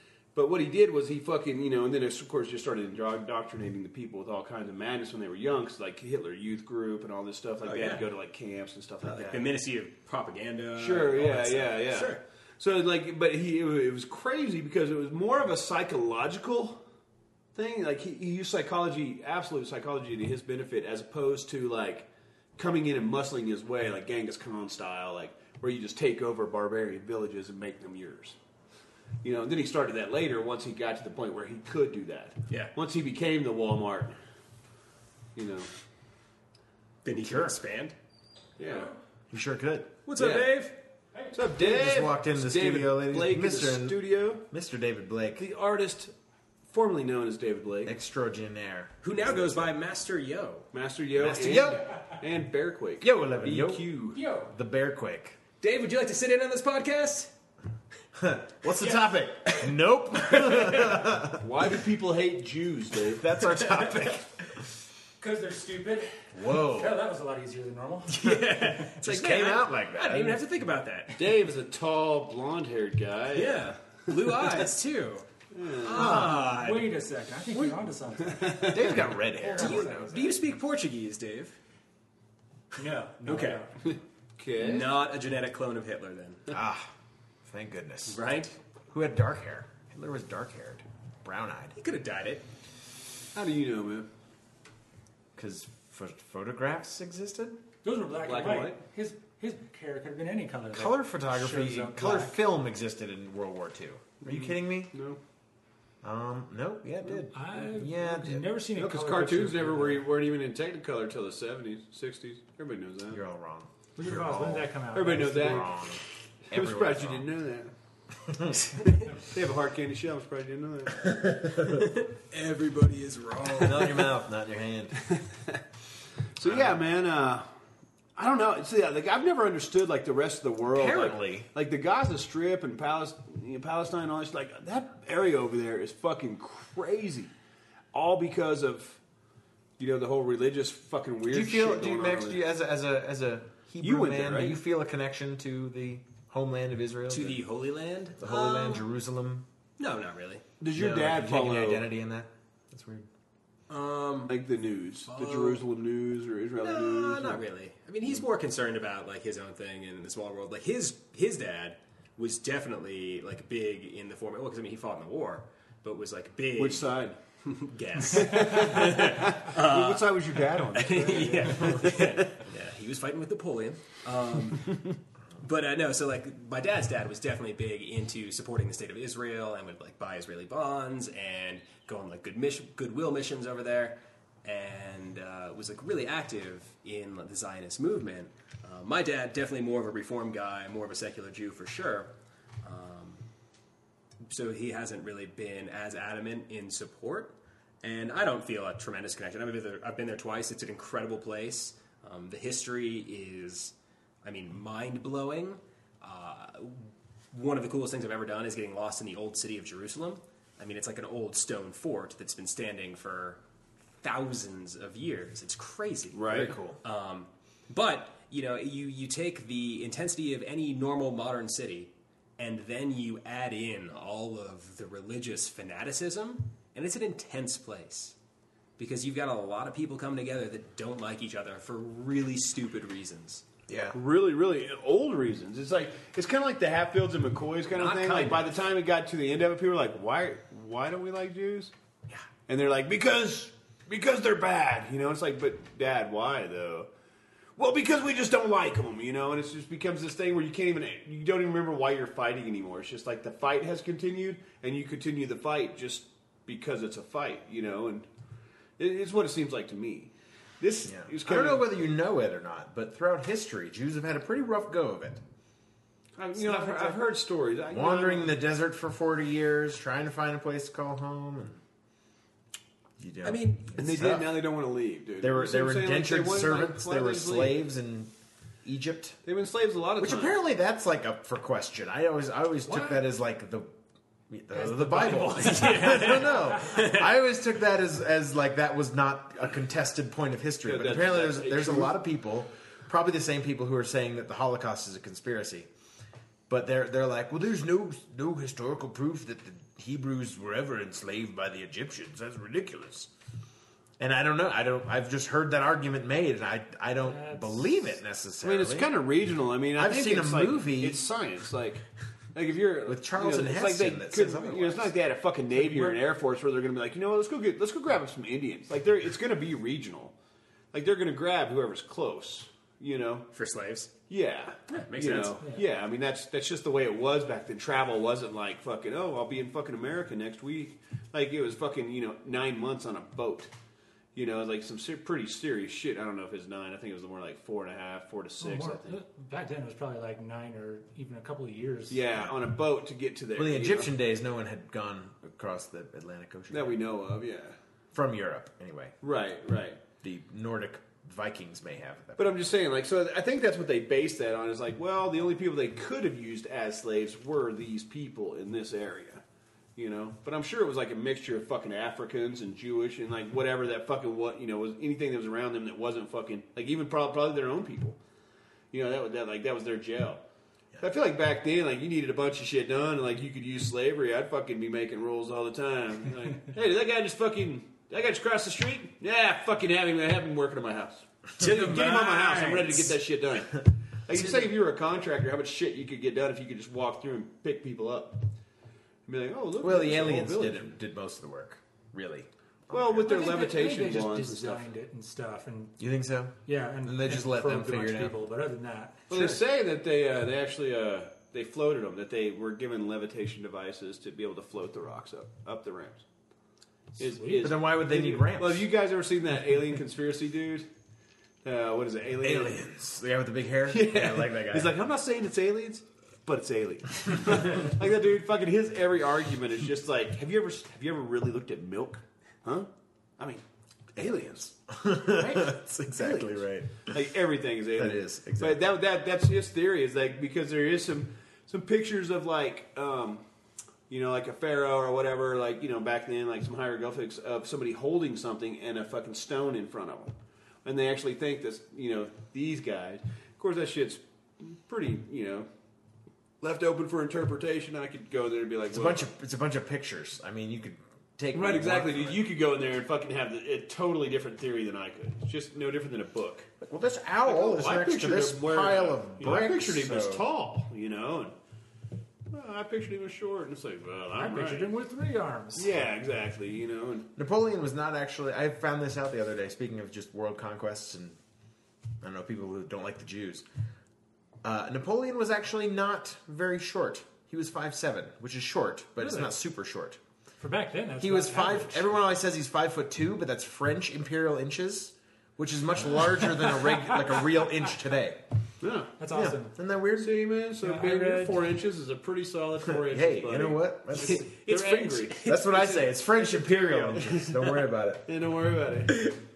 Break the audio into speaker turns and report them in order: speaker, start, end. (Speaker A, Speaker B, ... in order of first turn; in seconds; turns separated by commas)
Speaker A: 0.3-9.5, Speaker B: 7.6-8.0, Speaker B: 9.0-12.2, Speaker A: 10.8-16.8, Speaker A: 17.5-28.4, Speaker A: 29.2-34.1, Speaker A: 35.3-35.7, Speaker B: 37.0-37.9, Speaker C: 37.2-37.5, Speaker A: 38.6-38.9, Speaker C: 39.3-40.0, Speaker B: 40.0-40.8, Speaker A: 40.1-40.6, Speaker A: 41.3-44.4, Speaker C: 41.5-45.5, Speaker A: 45.4-46.1, Speaker A: 46.7-47.9, Speaker C: 47.8-48.9, Speaker B: 49.0-50.7, Speaker A: 50.7-54.2, Speaker C: 51.2-51.9, Speaker C: 53.0-55.4, Speaker D: 54.1-54.5, Speaker B: 55.6-57.3, Speaker C: 58.1-61.5, Speaker B: 60.2-61.0, Speaker A: 61.4-63.2, Speaker C: 63.1-64.7, Speaker B: 63.5-64.1, Speaker D: 65.2-68.2, Speaker C: 66.3-67.0, Speaker B: 68.1-71.5, Speaker C: 68.2-70.4, Speaker A: 71.2-74.6, Speaker B: 73.3-75.2, Speaker A: 75.5-76.3, Speaker B: 75.8-76.9, Speaker C: 75.9-76.4, Speaker D: 76.0-80.4, Speaker A: 78.2-79.1, Speaker C: 78.7-80.1, Speaker B: 79.5-81.5, Speaker D: 82.8-83.7, Speaker B: 83.2-83.6, Speaker A: 83.8-84.9, Speaker B: 84.6-86.5, Speaker C: 86.5-86.9, Speaker C: 87.5-88.2, Speaker B: 88.1-88.5, Speaker C: 88.9-91.8, Speaker B: 91.8-92.4, Speaker A: 93.3-94.1, Speaker C: 95.3-97.6, Speaker D: 97.8-102.4, Speaker A: 98.2-98.8, Speaker C: 100.7-104.9, Speaker A: 104.2-105.2, Speaker C: 106.0-108.5, Speaker D: 107.3-110.0, Speaker A: 108.7-113.2, Speaker C: 113.1-117.3, Speaker D: 114.0-115.7, Speaker A: 114.9-115.7, Speaker A: 116.5-117.7, Speaker C: 118.2-118.7, Speaker A: 118.7-121.2, Speaker C: 121.1-121.8, Speaker B: 121.6-124.1, Speaker C: 123.5-125.0, Speaker A: 125.1-125.6, Speaker A: 126.3-127.5, Speaker C: 126.4-126.8, Speaker A: 128.2-137.3, Speaker C: 130.7-131.5, Speaker A: 137.9-139.0, Speaker A: 139.8-142.4, Speaker C: 141.3-147.4, Speaker A: 143.8-144.6, Speaker B: 147.1-148.8, Speaker C: 148.2-149.5, Speaker B: 149.8-150.4, Speaker A: 150.6-151.8, Speaker C: 150.7-153.1, Speaker B: 153.7-154.3, Speaker A: 154.3-157.4, Speaker B: 155.1-155.6, Speaker B: 156.6-166.9, Speaker A: 166.6-167.2, Speaker B: 167.4-192.1, Speaker A: 168.0-172.4, Speaker B: 192.6-193.2, Speaker B: 194.3-213.4, Speaker B: 214.0-228.1, Speaker A: 216.1-216.5, Speaker C: 216.3-216.8, Speaker B: 228.8-233.4, Speaker C: 233.7-234.0, Speaker A: 233.9-241.7, Speaker B: 237.7-238.6, Speaker A: 242.5-246.9, Speaker A: 247.6-258.1, Speaker A: 258.8-261.6, Speaker C: 260.8-265.2, Speaker A: 266.2-268.3, Speaker C: 267.7-271.6, Speaker C: 273.0-274.4, Speaker B: 273.2-273.9, Speaker A: 273.8-277.6, Speaker C: 275.2-278.1, Speaker C: 278.6-279.2, Speaker A: 279.2-280.4, Speaker C: 280.0-283.7, Speaker D: 282.7-283.0, Speaker C: 284.3-295.7, Speaker D: 284.6-286.6, Speaker B: 285.0-287.1, Speaker A: 290.6-291.9, Speaker C: 296.5-303.1, Speaker C: 304.0-308.9, Speaker D: 307.1-307.6, Speaker A: 308.4-311.8, Speaker C: 309.7-311.0, Speaker A: 312.3-320.1, Speaker C: 312.9-314.9, Speaker A: 320.7-323.3, Speaker B: 323.3-323.9, Speaker A: 324.1-333.5, Speaker B: 324.7-325.4, Speaker A: 334.1-338.9, Speaker D: 338.4-342.0, Speaker A: 341.9-343.9, Speaker C: 343.3-346.8, Speaker A: 346.5-347.6, Speaker C: 347.9-349.0, Speaker A: 349.0-349.8, Speaker C: 350.0-352.4, Speaker A: 352.2-359.2, Speaker A: 359.8-368.0, Speaker A: 368.7-370.2, Speaker A: 370.8-388.2, Speaker B: 381.4-382.9, Speaker B: 384.1-384.5, Speaker A: 389.1-390.7, Speaker C: 389.6-393.1, Speaker A: 392.7-394.7, Speaker D: 393.0-395.8, Speaker C: 395.8-398.1, Speaker D: 396.4-399.1, Speaker A: 399.1-406.0, Speaker C: 399.1-399.4, Speaker A: 407.0-410.7, Speaker D: 407.0-407.5, Speaker C: 407.4-408.7, Speaker A: 411.4-412.6, Speaker C: 412.2-414.7, Speaker A: 413.7-423.4, Speaker A: 423.9-424.4, Speaker C: 423.9-426.9, Speaker A: 425.1-433.2, Speaker C: 427.7-428.6, Speaker A: 433.9-445.5, Speaker A: 446.4-449.1, Speaker C: 448.7-452.3, Speaker A: 451.3-456.5, Speaker C: 456.6-460.2, Speaker A: 457.2-461.3, Speaker A: 462.3-464.7, Speaker D: 464.2-465.7, Speaker A: 465.5-467.1, Speaker C: 467.1-471.2, Speaker C: 472.0-473.4, Speaker C: 474.4-480.0, Speaker D: 479.0-479.4, Speaker D: 480.4-481.9, Speaker C: 481.0-488.2, Speaker D: 486.4-487.0, Speaker A: 488.6-488.9, Speaker D: 489.0-489.6, Speaker C: 489.1-490.2, Speaker A: 490.0-499.1, Speaker D: 490.6-491.4, Speaker C: 492.6-494.3, Speaker B: 493.9-495.5, Speaker C: 495.2-498.0